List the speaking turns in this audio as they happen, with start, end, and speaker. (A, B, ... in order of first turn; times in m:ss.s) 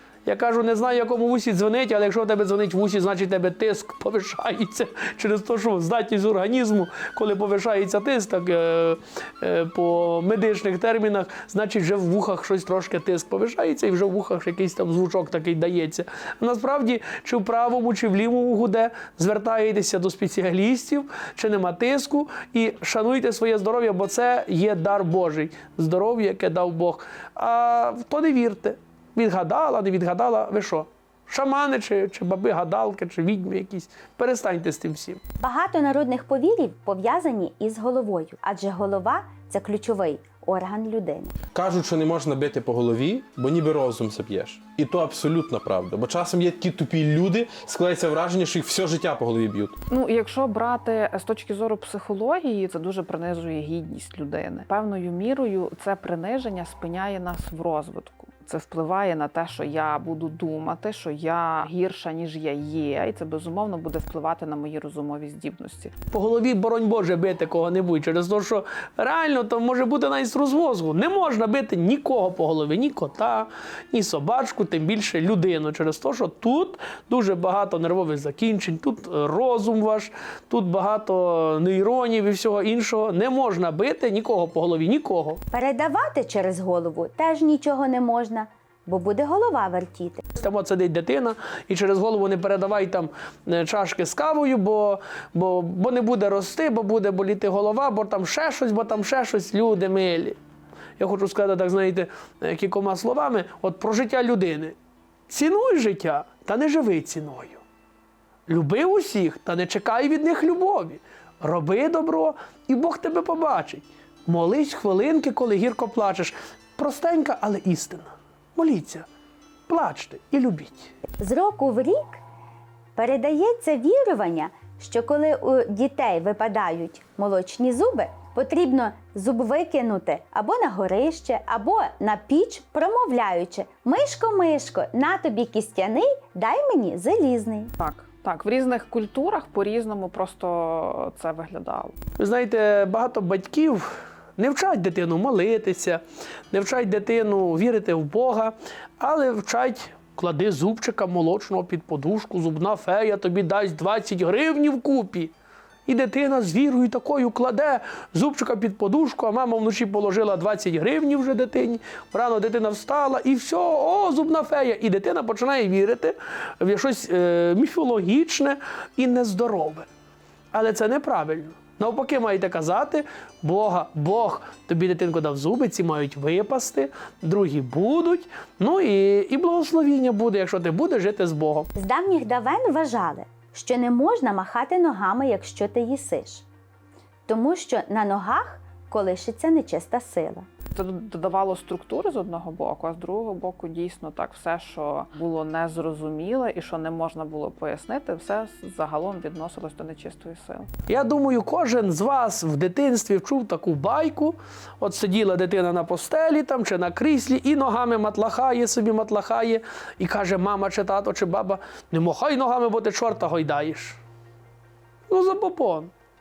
0:00.2-0:35.2 A
0:35.4-0:41.3 B
0:41.6-0:49.8 C
0:49.9-1:05.9 D
1:06.1-1:25.4 A
1:25.5-1:30.2 B
1:30.3-1:40.4 A
1:41.0-1:44.8 A
1:45.3-1:47.6 A
1:48.5-1:59.1 A
1:59.7-2:00.9 A
2:01.2-2:02.2 B
2:03.0-2:17.7 B
2:17.8-2:22.0 D
2:22.2-2:35.3 A
2:35.9-2:49.9 A
2:50.5-3:01.7 A
3:01.8-3:06.4 B
3:07.3-3:10.4 B
3:10.8-3:20.7 D
3:20.9-3:34.0 A
3:35.1-3:35.9 A